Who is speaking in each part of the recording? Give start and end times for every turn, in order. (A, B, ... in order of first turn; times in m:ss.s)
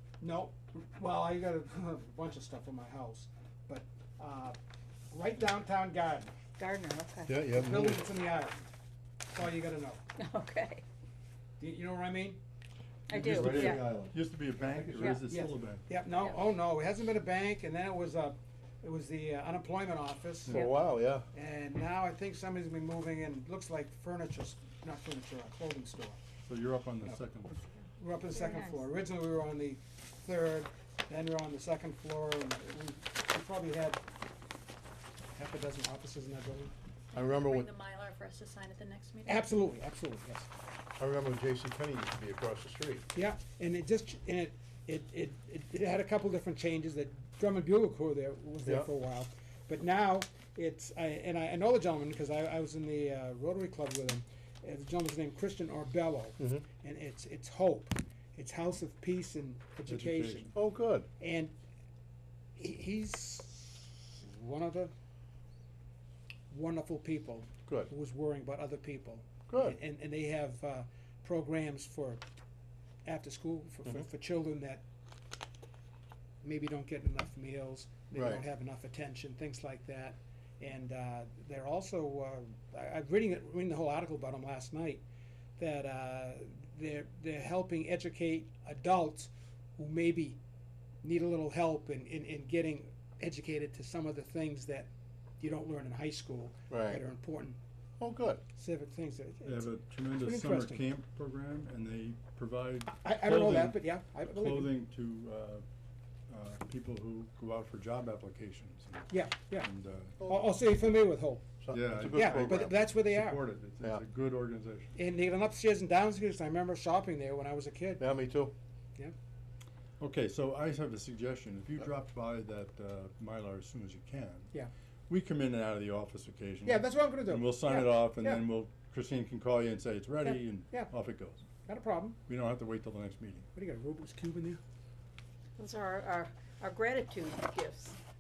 0:00.2-0:04.6 A
0:05.1-0:06.3 A
0:06.6-0:07.5 B
0:07.3-0:08.1 C
0:07.6-0:08.7 A
0:09.3-0:10.0 A
0:10.2-0:10.8 B
0:11.6-0:12.4 A
0:13.1-0:14.0 B
0:13.1-0:15.8 D
0:13.2-0:14.2 C
0:14.6-0:20.6 A
0:14.7-0:15.0 C
0:15.0-0:15.2 B
0:20.5-0:21.3 C
0:20.5-0:20.9 B
0:21.3-0:26.2 A
0:26.4-0:27.6 D
0:28.0-0:34.0 A
0:28.3-0:28.8 B
0:35.3-0:36.7 A
0:37.1-0:39.5 E
0:37.1-0:37.7 C
0:39.2-0:40.5 A
0:41.0-0:43.1 C
0:43.1-1:00.5 A
0:48.6-0:48.9 C
0:56.4-0:56.6 C
0:59.9-1:00.5 D
1:00.6-1:01.1 C
1:01.2-1:01.5 A
1:02.6-1:04.9 A
1:06.5-1:12.2 A
1:09.5-1:09.8 C
1:13.0-1:14.8 A
1:16.4-1:25.0 A
1:18.1-1:18.5 C
1:25.6-1:30.4 A
1:31.0-1:37.6 A
1:36.7-1:37.0 C
1:38.0-1:38.4 C
1:38.6-1:40.9 A
1:39.4-1:45.6 D
1:42.9-1:44.7 A
1:46.3-1:50.2 D
1:49.1-1:49.7 A
1:50.2-1:51.4 A
1:51.6-1:52.7 C
1:51.7-1:55.0 D
1:52.1-1:53.4 A
1:55.0-1:58.0 A
1:58.0-1:58.5 C
2:00.0-2:04.5 D
2:05.1-2:11.4 D
2:06.6-2:08.5 A
2:10.2-2:10.9 A
2:11.6-2:12.2 A
2:12.3-2:13.5 D
2:13.6-2:14.6 A
2:15.6-2:18.0 B